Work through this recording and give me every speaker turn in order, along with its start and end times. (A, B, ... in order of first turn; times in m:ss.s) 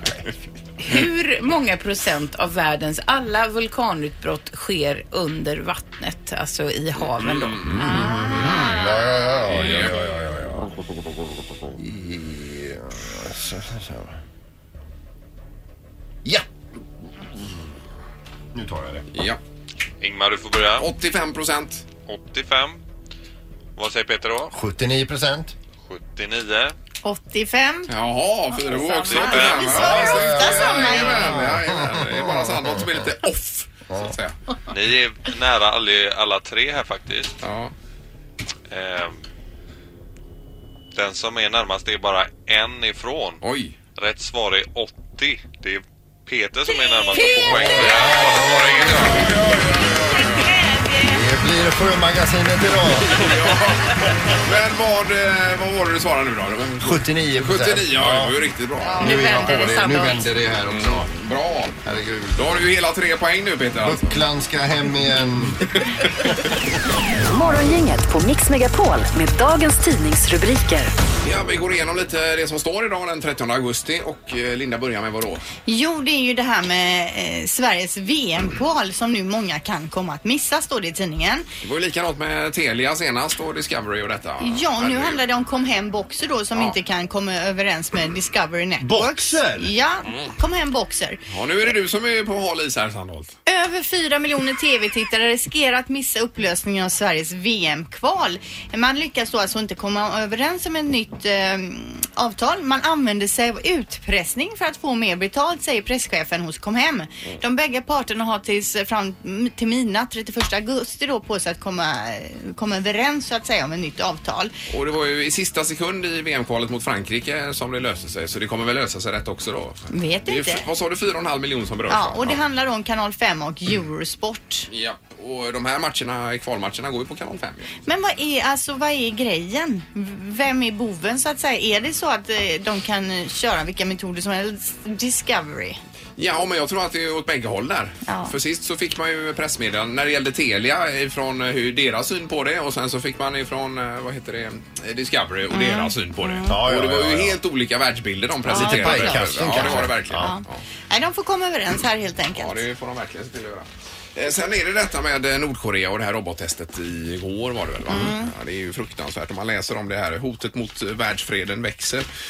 0:00.8-0:08.1 A
0:07.2-0:10.0 B
0:07.9-0:10.7 C
0:08.1-0:08.6 D
0:11.8-0:14.2 C
0:18.5-0:19.1 C
0:19.1-0:19.4 B
0:20.0-0:20.9 E
0:20.8-0:21.8 B
0:22.1-0:22.8 E
0:23.8-0:24.5 E
0:24.5-0:25.5 C
0:25.9-0:26.7 E
0:27.0-0:27.9 D
0:27.9-0:34.4 B
0:28.6-0:31.4 D
0:29.1-0:29.8 E
0:29.8-0:33.1 C
0:34.7-0:37.4 E
0:37.4-0:37.7 B
0:38.7-0:39.2 E
0:41.0-0:43.4 E
0:43.4-0:43.8 B
0:44.0-0:49.2 E
0:47.1-0:47.4 D
0:47.5-0:49.2 C
0:47.6-0:50.6 B
0:51.0-0:53.4 C
0:53.1-0:59.6 B
0:56.8-0:58.4 C
0:58.8-1:00.3 A
0:59.0-1:01.1 C
1:00.7-1:01.8 B
1:01.8-1:02.6 C
1:02.4-1:04.2 B
1:03.8-1:05.8 C
1:05.8-1:06.1 B
1:07.3-1:10.9 F
1:11.2-1:15.5 B
1:15.7-1:21.5 D
1:21.6-1:25.2 B
1:24.4-1:31.2 D
1:28.8-1:29.7 C
1:30.1-1:30.3 B
1:31.3-1:33.3 B
1:33.5-1:54.5 D
1:54.7-2:02.4 B
1:59.9-2:00.6 D
2:01.9-2:04.7 D
2:04.7-2:07.7 B
2:07.8-2:15.8 D
2:16.2-2:30.6 B
2:18.1-2:18.3 D
2:25.5-2:26.6 D
2:26.5-2:27.4 C
2:28.5-2:30.3 C
2:28.5-2:32.6 D
2:32.4-2:42.1 B
2:37.9-2:38.3 D